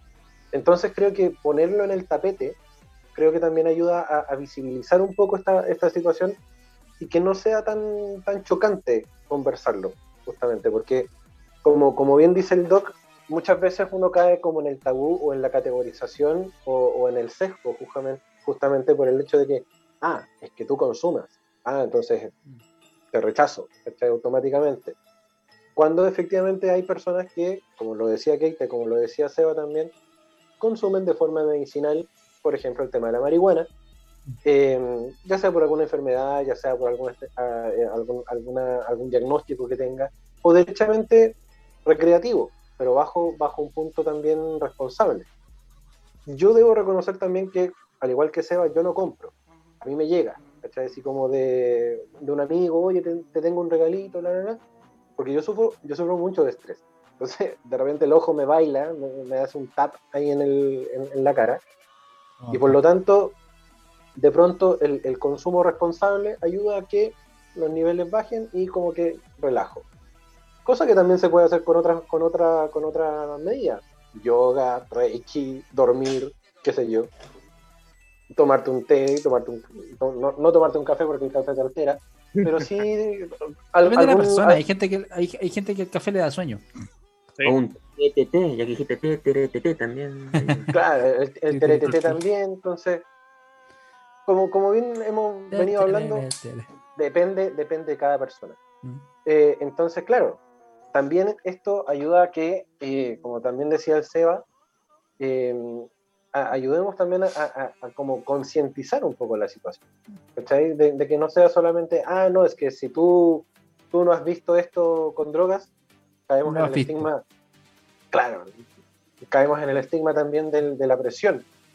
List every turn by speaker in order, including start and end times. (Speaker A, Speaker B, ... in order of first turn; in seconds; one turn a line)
Speaker A: 0.5-2.6
Speaker A: 3.1-6.4
Speaker A: 7.0-11.1
Speaker A: 11.6-22.3
Speaker A: 23.1-24.9
Speaker A: 25.8-29.9
Speaker A: 30.6-33.7
Speaker A: 34.4-45.3
Speaker A: 46.3-54.6
Speaker A: 55.2-61.6
Speaker B: 62.4-62.8
Speaker A: 62.5-63.3
Speaker A: 64.2-69.8
Speaker A: 70.6-77.1
Speaker A: 78.3-84.6
Speaker B: 83.9-86.6
Speaker C: 87.4-90.7
Speaker A: 90.7-93.0
Speaker B: 91.5-92.2
Speaker A: 94.2-96.2
Speaker B: 95.5-96.7
Speaker A: 96.9-98.6
Speaker A: 99.2-100.4
Speaker A: 100.9-104.4
Speaker A: 105.2-109.8
Speaker A: 110.3-115.7
Speaker A: 116.3-117.2
Speaker B: 116.5-117.0
Speaker A: 118.1-118.6
Speaker A: 119.2-121.4